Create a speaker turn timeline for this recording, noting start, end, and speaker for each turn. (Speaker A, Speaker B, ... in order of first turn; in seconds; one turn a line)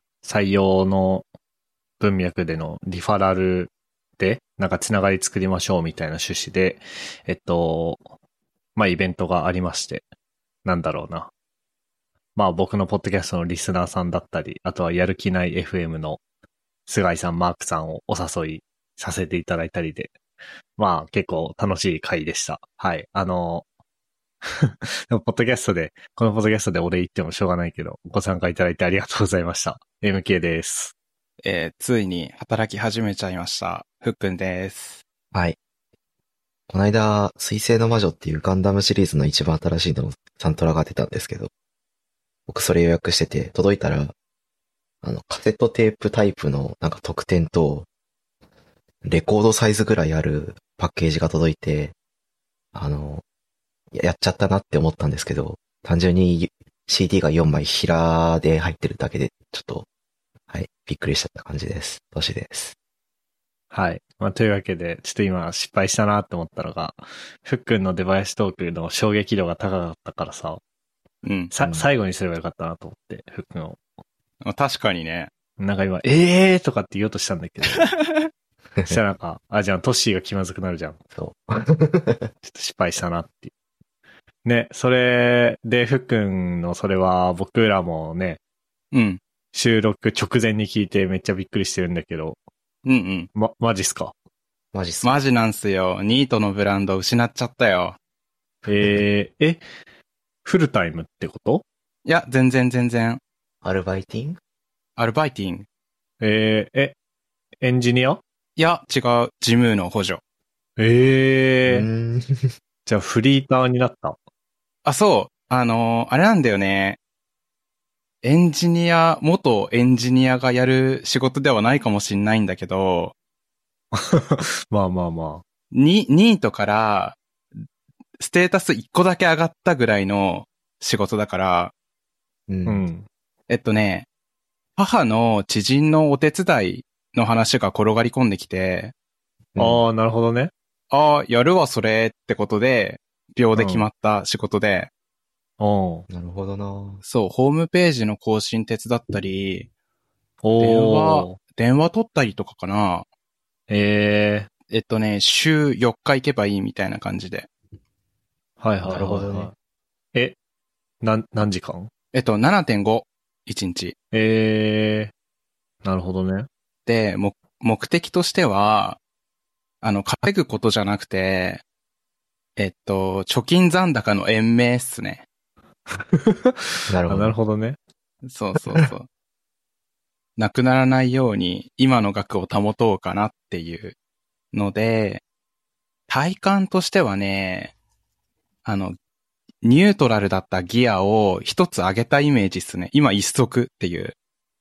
Speaker A: 0.2-1.2
Speaker A: 2.0-8.1
Speaker A: 8.8-10.0
Speaker A: 10.6-11.3
Speaker A: 12.3-16.2
Speaker A: 16.9-20.1
Speaker A: 20.8-23.6
Speaker A: 24.4-30.9
Speaker B: 31.4-35.0
Speaker C: 36.7-41.5
Speaker C: 42.5-44.1
Speaker C: 45.0-47.9
Speaker C: 49.0-51.9
Speaker C: 52.7-53.2
Speaker C: 53.9-59.9
Speaker C: 60.5-62.7
Speaker A: 63.7-70.6
Speaker B: 71.2-71.5
Speaker A: 71.5-73.8
Speaker B: 74.4-75.3
Speaker A: 75.6-77.9
Speaker B: 77.7-78.3
Speaker A: 78.8-81.0
Speaker C: 81.1-82.3
Speaker A: 82.4-83.5
Speaker A: 84.4-88.4
Speaker B: 88.9-89.2
Speaker A: 89.5-92.4
Speaker B: 92.8-93.3
Speaker A: 93.3-94.1
Speaker C: 94.7-95.1
Speaker B: 95.0-98.0
Speaker A: 98.7-99.6
Speaker A: 100.4-101.6
Speaker B: 102.0-103.2
Speaker C: 103.6-104.4
Speaker B: 105.0-105.7
Speaker A: 106.2-106.9
Speaker A: 107.6-108.2
Speaker B: 108.6-110.2
Speaker A: 110.8-111.9
Speaker C: 111.6-112.5
Speaker A: 112.8-114.2
Speaker B: 114.8-117.0
Speaker B: 118.2-123.1
Speaker A: 123.9-125.4
Speaker B: 125.7-127.6
Speaker B: 128.2-131.7
Speaker C: 132.5-132.8
Speaker A: 132.7-133.1
Speaker B: 133.5-134.1
Speaker B: 134.8-138.9
Speaker C: 139.5-139.8
Speaker A: 139.6-140.5
Speaker B: 140.9-144.9
Speaker A: 143.6-143.8
Speaker A: 145.6-146.1
Speaker C: 146.1-147.0
Speaker B: 147.1-149.7
Speaker A: 150.4-151.4
Speaker B: 150.6-153.1
Speaker A: 153.7-154.5
Speaker B: 154.7-157.5
Speaker A: 158.6-159.5
Speaker C: 158.9-159.5
Speaker A: 161.0-161.9
Speaker B: 162.1-163.9
Speaker A: 164.1-165.1
Speaker A: 165.8-166.5
Speaker B: 166.9-169.0
Speaker B: 169.8-171.6
Speaker B: 172.6-175.2
Speaker A: 175.9-177.8
Speaker C: 176.9-177.3
Speaker B: 178.2-179.1
Speaker B: 180.4-183.9
Speaker B: 184.5-185.2
Speaker B: 186.1-187.7
Speaker B: 188.6-188.9
Speaker B: 189.6-194.1